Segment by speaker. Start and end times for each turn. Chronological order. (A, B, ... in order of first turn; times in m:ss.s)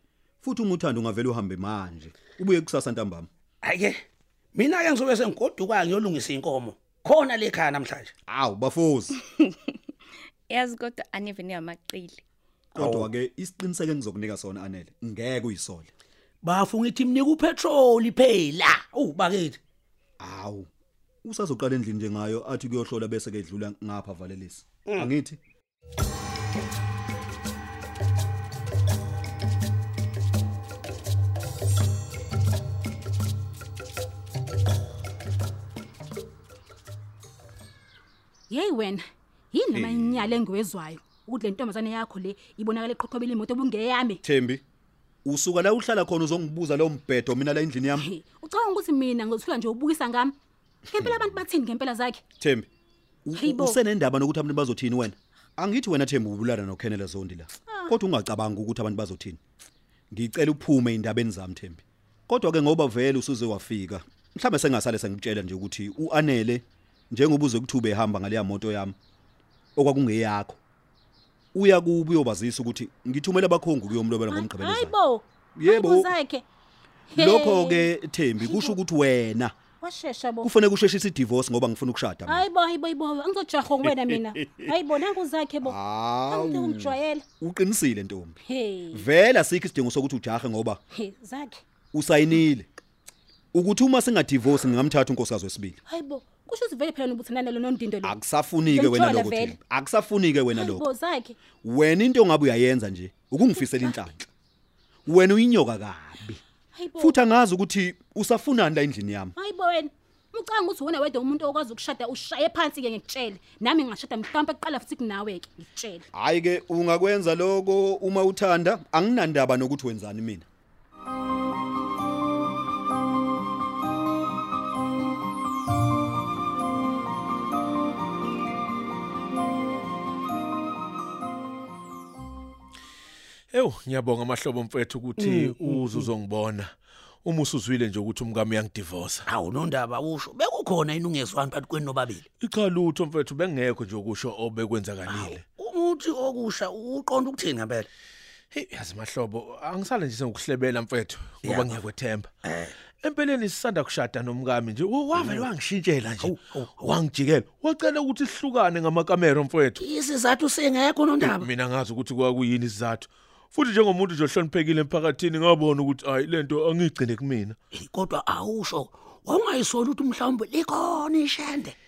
0:00.4-0:03.3 A
0:03.6-0:04.0 B
0:04.5-0:08.1 B
0:08.3-0:09.2 A
0:09.4-0:09.7 C
0:10.5-0:12.2 C
0:12.7-0:15.9 A
0:12.7-0:13.1 B
0:16.4-0:19.6 B
0:20.2-0:20.7 A
0:21.2-0:25.4 A
0:38.5-0:44.2 D
0:39.7-0:40.3 A
0:44.2-0:44.6 A
0:45.2-0:48.1 A
0:47.9-0:50.3 D
0:50.9-0:52.2 D
0:52.4-0:52.7 A
0:53.2-0:59.4 A
0:53.3-0:53.8 D
0:57.7-0:58.0 D
1:00.1-1:09.0 A
1:09.8-1:10.6 A
1:11.5-1:15.0 A
1:14.3-1:16.4 D
1:15.6-1:16.1 A
1:17.1-1:17.9 D
1:17.2-1:19.6 A
1:18.4-1:18.8 D
1:19.8-1:20.5 D
1:20.4-1:22.4 A
1:22.2-1:27.2 D
1:25.6-1:28.4 A
1:28.4-1:29.0 D
1:28.9-1:30.8 A
1:30.9-1:31.6 D
1:31.9-1:32.7 A
1:33.5-1:35.8 A
1:35.9-1:39.6 D
1:38.0-1:40.9 A
1:40.5-1:41.3 D
1:41.6-1:44.2 A
1:43.6-1:44.0 D
1:45.0-1:46.4 A
1:46.7-1:47.3 D
1:46.9-1:49.3 A
1:49.4-1:56.0 D
1:56.1-2:00.4 A
2:13.5-2:16.7 E
2:15.2-2:16.1 B
2:17.2-2:19.2 E
2:19.3-2:22.2 B
2:22.4-2:25.4 E
2:25.1-2:27.9 B
2:28.5-2:32.3 E
2:31.4-2:31.7 B
2:32.4-2:32.7 B
2:33.0-2:39.8 E
2:35.1-2:35.5 B
2:36.2-2:37.0 B
2:39.8-2:41.5 B
2:41.2-2:47.6 E
2:47.7-2:51.7 B